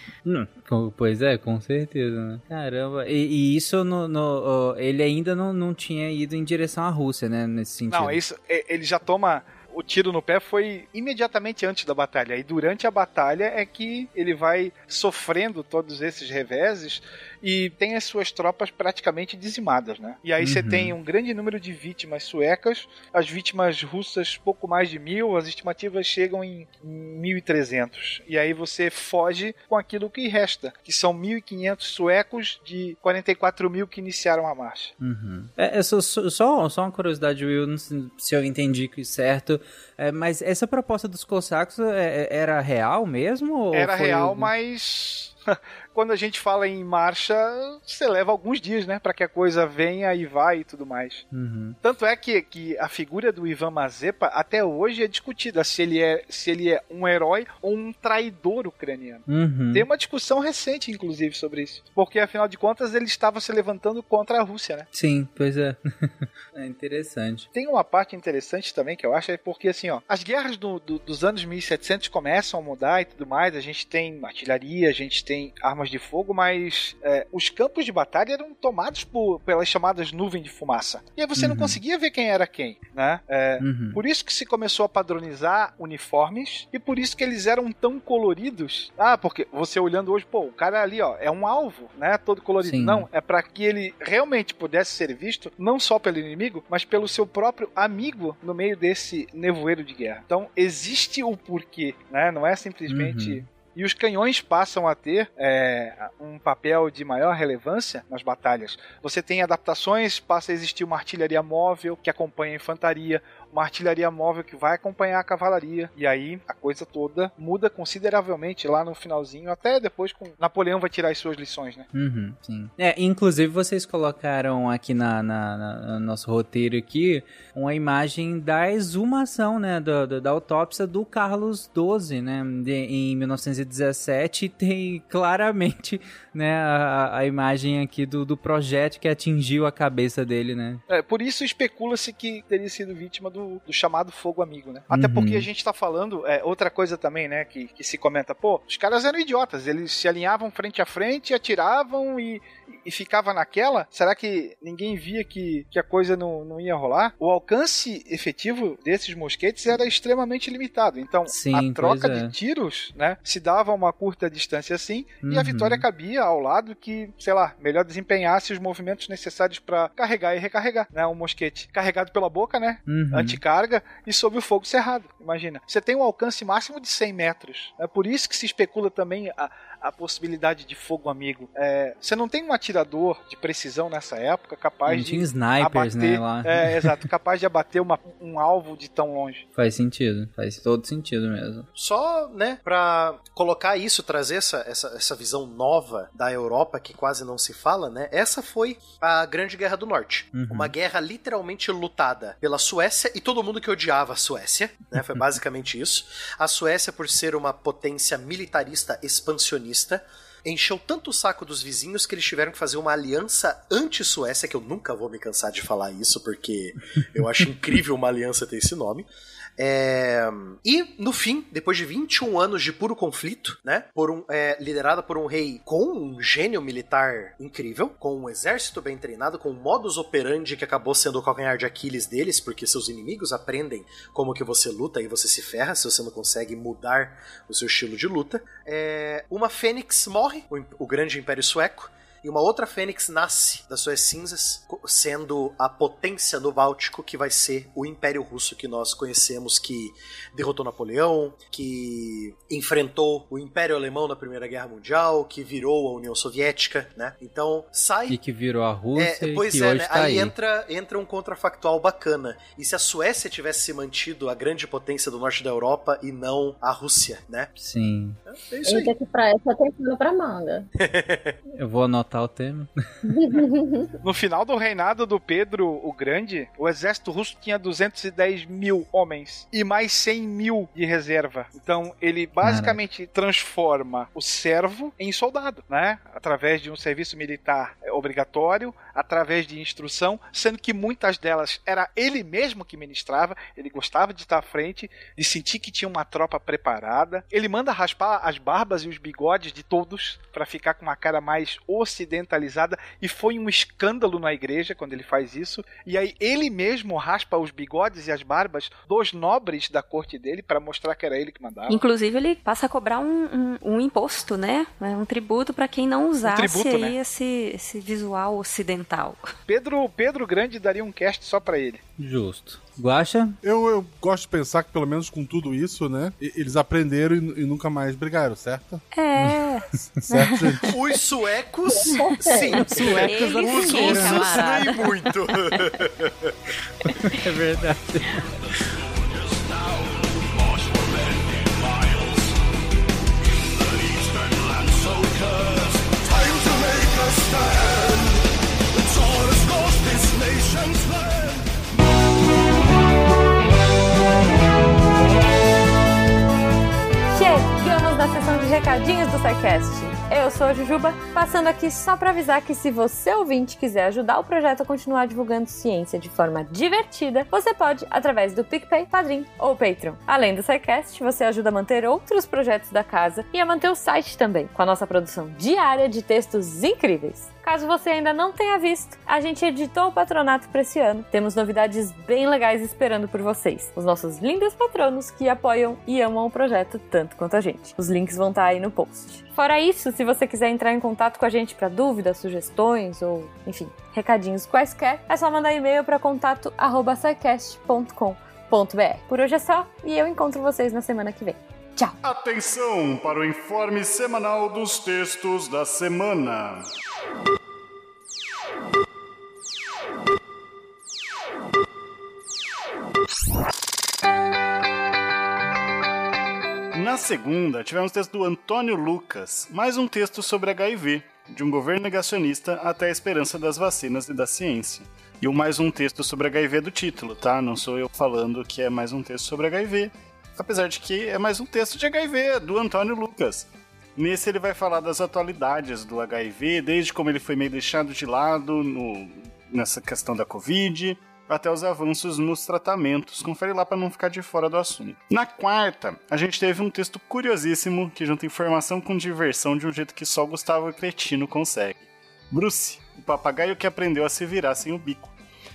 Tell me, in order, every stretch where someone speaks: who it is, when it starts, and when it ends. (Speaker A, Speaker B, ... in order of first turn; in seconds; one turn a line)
Speaker A: 0.2-8.2
Speaker B: 7.9-34.9
Speaker A: 20.4-20.9
Speaker A: 35.0-44.5
Speaker B: 43.7-51.2
Speaker A: 51.3-51.8
Speaker B: 51.8-64.9
Speaker A: 59.3-59.9
Speaker A: 64.9-67.5
Speaker B: 67.5-121.8
Speaker A: 81.3-81.8
Speaker A: 83.6-84.0
Speaker A: 92.6-93.1
Speaker A: 102.9-103.4
Speaker A: 121.9-140.8
Speaker B: 140.9-189.4
Speaker A: 144.9-145.5
Speaker A: 161.3-162.3
Speaker A: 165.2-165.8
Speaker A: 172.9-173.4
Speaker A: 184.9-187.0
Speaker A: 189.6-191.7
Speaker C: 191.8-219.1
Speaker A: 200.3-200.7
Speaker C: 219.6-258.2
Speaker A: 258.1-260.3
Speaker C: 258.9-267.5
Speaker A: 267.6-268.2
Speaker C: 268.3-268.9
Speaker D: 268.6-270.7
Speaker C: 270.8-271.4
Speaker A: 271.6-272.7
Speaker D: 273.1-273.9
Speaker B: 274.0-311.8
Speaker A: 282.4-282.8
Speaker E: 311.7-319.3
Speaker B: 316.2-316.9
Speaker B: 319.5-321.8
Speaker A: 322.0-323.4
Speaker F: 323.4-328.8
Speaker E: 328.9-330.5
Speaker F: 330.1-330.7
Speaker C: 330.7-336.3
Speaker D: 331.7-332.5
Speaker E: 332.5-335.6
Speaker A: 332.7-334.3
Speaker A: 336.9-338.3
Speaker G: 357.1-401.9
Speaker H: 402.0-406.6
Speaker H: 416.7-455.1